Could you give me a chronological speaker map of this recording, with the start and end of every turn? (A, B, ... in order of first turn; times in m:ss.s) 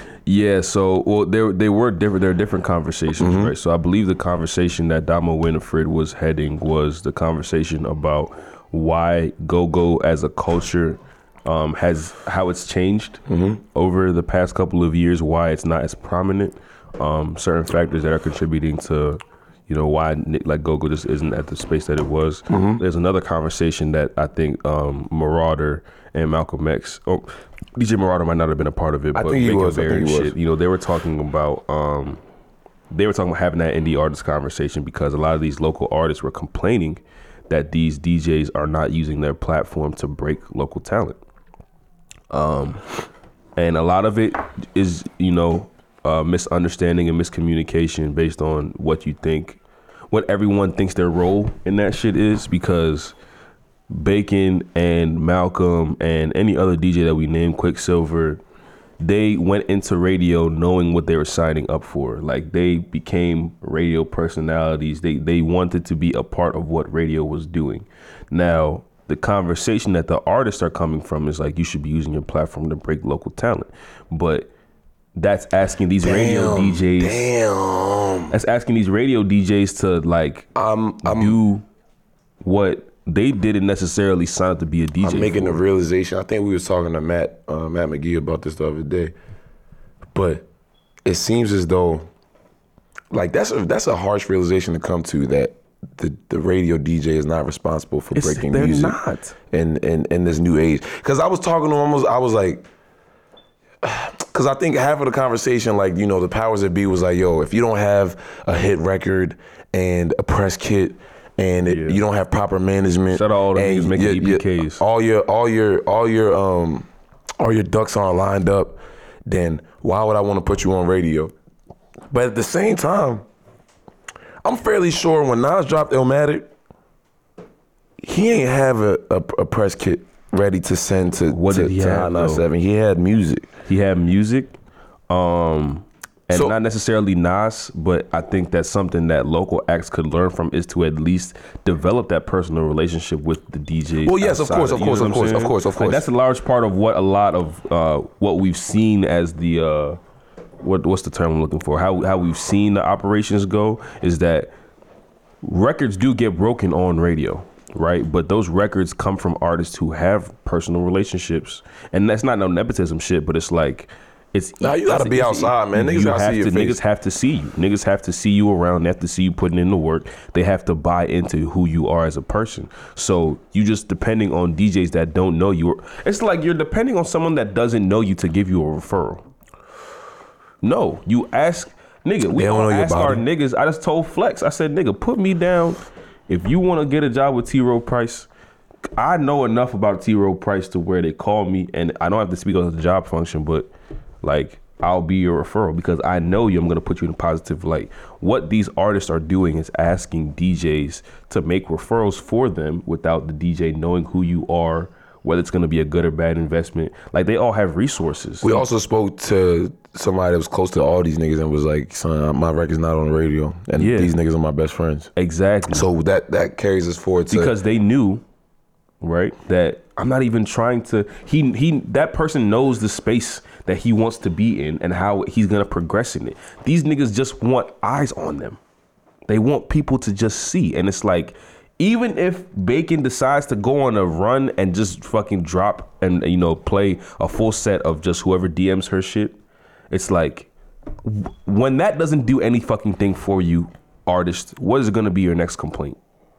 0:00.3-0:32.2 A
0:03.2-0:03.5 B
0:13.3-0:13.6 B
0:22.5-0:22.8 B
0:29.1-0:30.4 B
0:32.9-0:41.2 A
0:42.3-0:42.8 A
0:43.6-0:49.6 A
0:50.1-0:53.2 A
0:53.9-0:58.4 A
0:59.0-1:14.5 A
1:15.2-1:17.3 A
1:16.0-1:18.4 B
1:18.3-1:20.5 A
1:20.6-1:21.4 B
1:21.0-1:21.7 A
1:22.4-1:25.6 A
1:25.0-1:29.1 B
1:30.1-1:30.5 B
1:31.0-1:32.1 B
1:33.1-1:39.0 B
1:38.1-1:39.4 A
1:39.5-1:42.7 B
1:43.8-1:56.9 B
1:51.7-1:52.0 A
1:53.1-1:54.8 A
1:57.4-2:01.3 B
2:02.1-2:03.2 B
2:04.4-2:06.5 B
2:08.0-2:13.5 B
2:11.3-2:12.4 A
2:13.7-2:14.6 A
2:15.1-2:30.0 A
2:16.3-2:16.6 B
2:24.0-2:26.1 B
2:30.6-2:34.5 A
2:35.4-2:59.3 A
2:44.6-2:46.8 B
3:00.6-3:08.3 A
3:02.3-3:03.2 B
3:09.0-3:13.7 A
3:14.2-3:28.6 A
3:28.4-3:35.1 B
3:33.8-3:34.1 A
3:35.2-3:35.9 A
3:35.7-3:37.6 B
3:37.3-3:38.2 A
3:39.0-3:48.6 A
3:49.3-3:59.4 A
3:59.9-4:00.5 A
4:01.0-4:06.0 A